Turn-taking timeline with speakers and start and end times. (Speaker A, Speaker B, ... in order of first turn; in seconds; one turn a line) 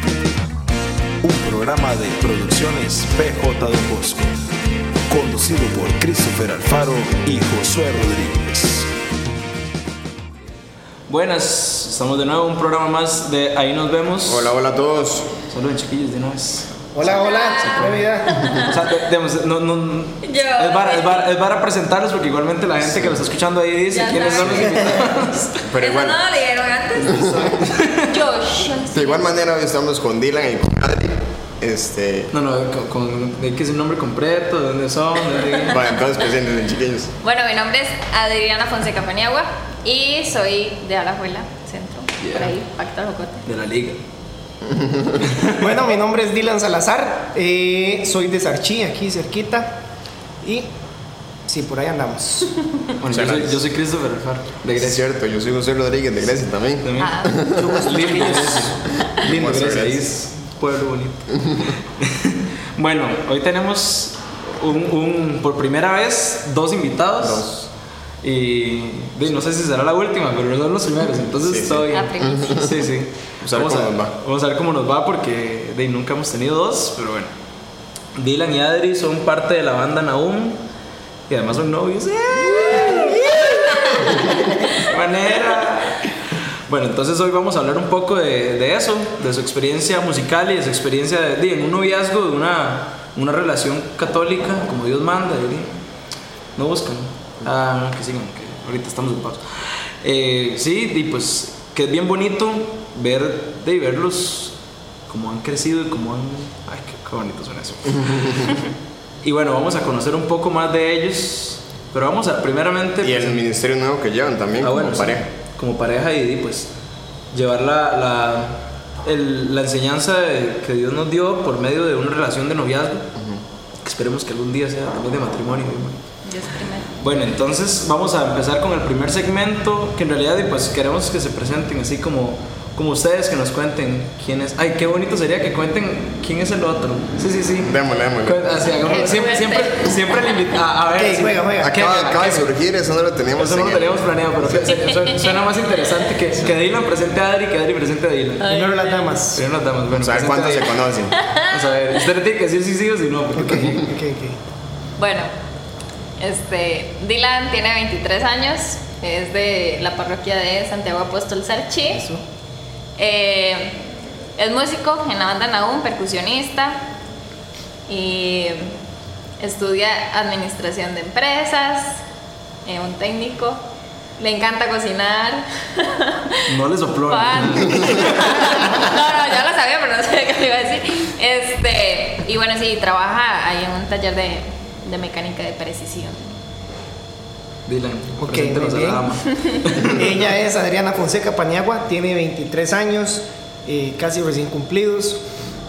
Speaker A: 1.2-4.3
Speaker A: 5.1-8.9
Speaker B: 11.1-14.5
Speaker C: 14.2-15.3
Speaker B: 15.5-16.8
Speaker D: 16.9-18.5
Speaker E: 17.0-18.7
Speaker B: 17.6-18.0
Speaker B: 18.6-25.6
Speaker E: 20.2-21.3
Speaker C: 22.8-23.2
Speaker E: 23.9-25.0
Speaker C: 24.4-24.8
Speaker C: 25.6-26.2
Speaker E: 25.8-27.5
Speaker C: 27.0-27.6
Speaker B: 27.2-28.1
Speaker E: 28.0-29.3
Speaker C: 28.9-32.3
Speaker B: 32.3-35.8
Speaker C: 35.6-37.1
Speaker E: 37.2-43.4
Speaker B: 42.2-42.5
Speaker B: 43.5-44.0
Speaker C: 44.7-45.2
Speaker B: 45.3-45.6
Speaker D: 45.5-49.8
Speaker D: 50.4-50.7
Speaker D: 51.5-52.5
Speaker B: 53.0-55.0
Speaker C: 53.1-53.6
Speaker C: 54.8-58.4
Speaker B: 56.8-67.5
Speaker E: 57.0-57.4
Speaker D: 57.6-58.7
Speaker C: 59.1-60.0
Speaker C: 67.2-67.7
Speaker B: 68.2-77.3
Speaker C: 71.4-72.7
Speaker E: 71.9-72.7
Speaker C: 73.4-74.1
Speaker B: 78.2-80.6
Speaker B: 81.3-95.7
Speaker E: 83.7-84.0
Speaker B: 96.5-104.5
Speaker B: 105.1-108.6
Speaker B: 109.2-113.4
Speaker C: 113.0-115.2
Speaker B: 114.6-116.7
Speaker B: 117.3-123.1
Speaker C: 123.2-123.4
Speaker B: 123.8-126.0
Speaker E: 126.2-127.0
Speaker B: 127.0-142.5
Speaker C: 137.6-138.5
Speaker E: 138.8-140.3
Speaker D: 140.9-141.8
Speaker C: 141.6-144.7
Speaker B: 143.3-148.6
Speaker E: 144.7-145.4
Speaker E: 148.4-149.2
Speaker D: 148.4-149.4
Speaker B: 149.3-153.9
Speaker C: 149.9-151.2
Speaker E: 151.1-151.6
Speaker D: 153.3-154.4
Speaker E: 155.0-155.3
Speaker E: 156.2-162.1
Speaker D: 161.9-162.2
Speaker E: 163.0-166.8
Speaker E: 167.9-168.8
Speaker E: 169.4-172.0
Speaker E: 172.6-173.6
Speaker E: 174.2-176.5
Speaker B: 176.5-178.8
Speaker E: 177.1-186.4
Speaker B: 187.7-190.2
Speaker D: 188.2-189.1
Speaker D: 189.8-195.2